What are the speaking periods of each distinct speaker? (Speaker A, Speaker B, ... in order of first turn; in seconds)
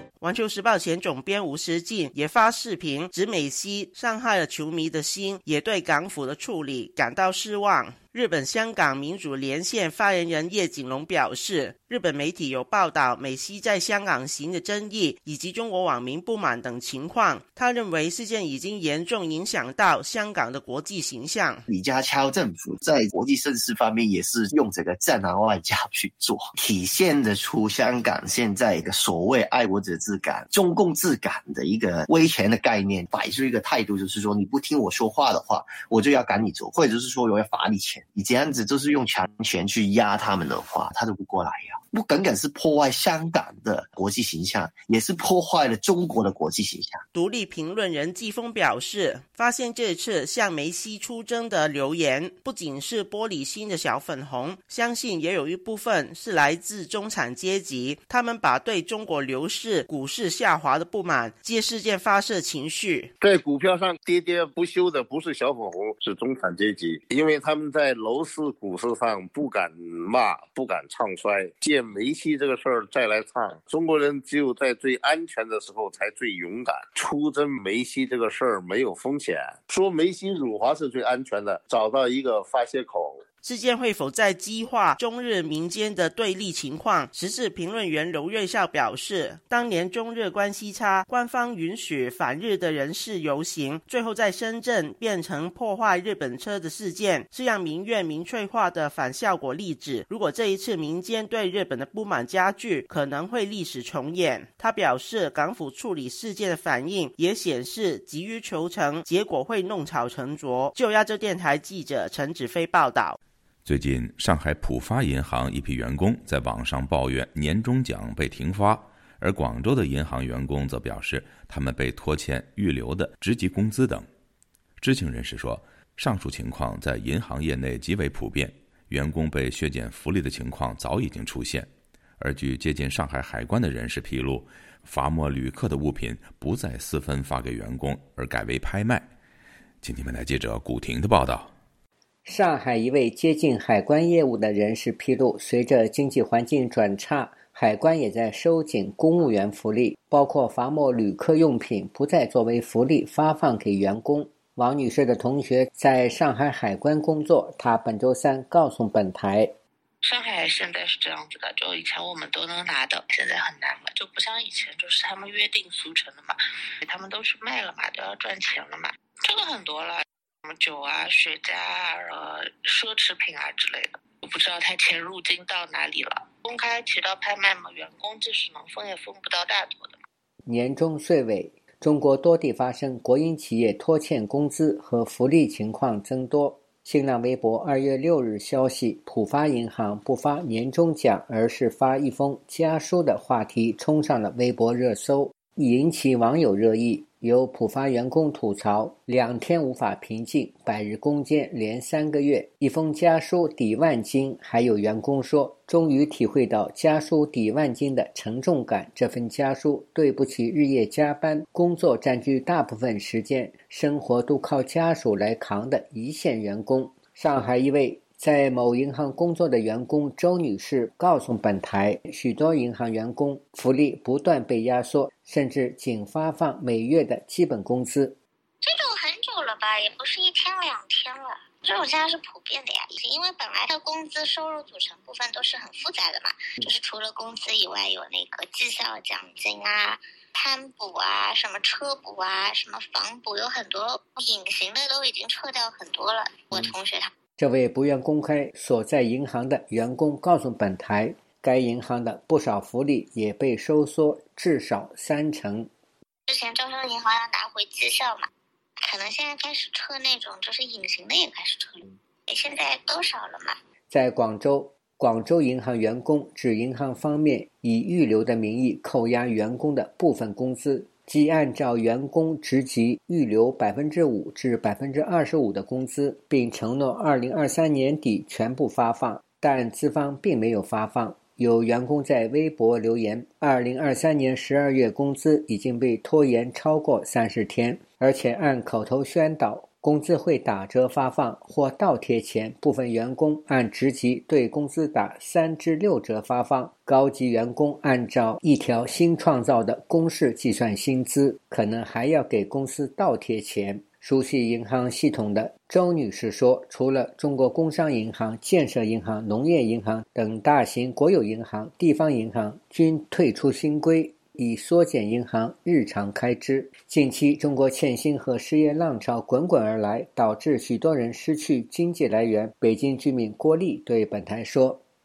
Speaker A: 0.2-21.6, 47.1-63.1, 83.4-113.2
Speaker B: 21.7-47.0
Speaker C: 63.2-83.2
Speaker D: 113.6-124.1, 124.8-139.1, 139.8-141.5
Speaker E: 142.2-159.5, 180.5-228.2, 247.4-255.7, 263.9-324.8
Speaker F: 160.0-180.0
Speaker G: 228.6-247.1, 256.3-258.3, 258.8-263.6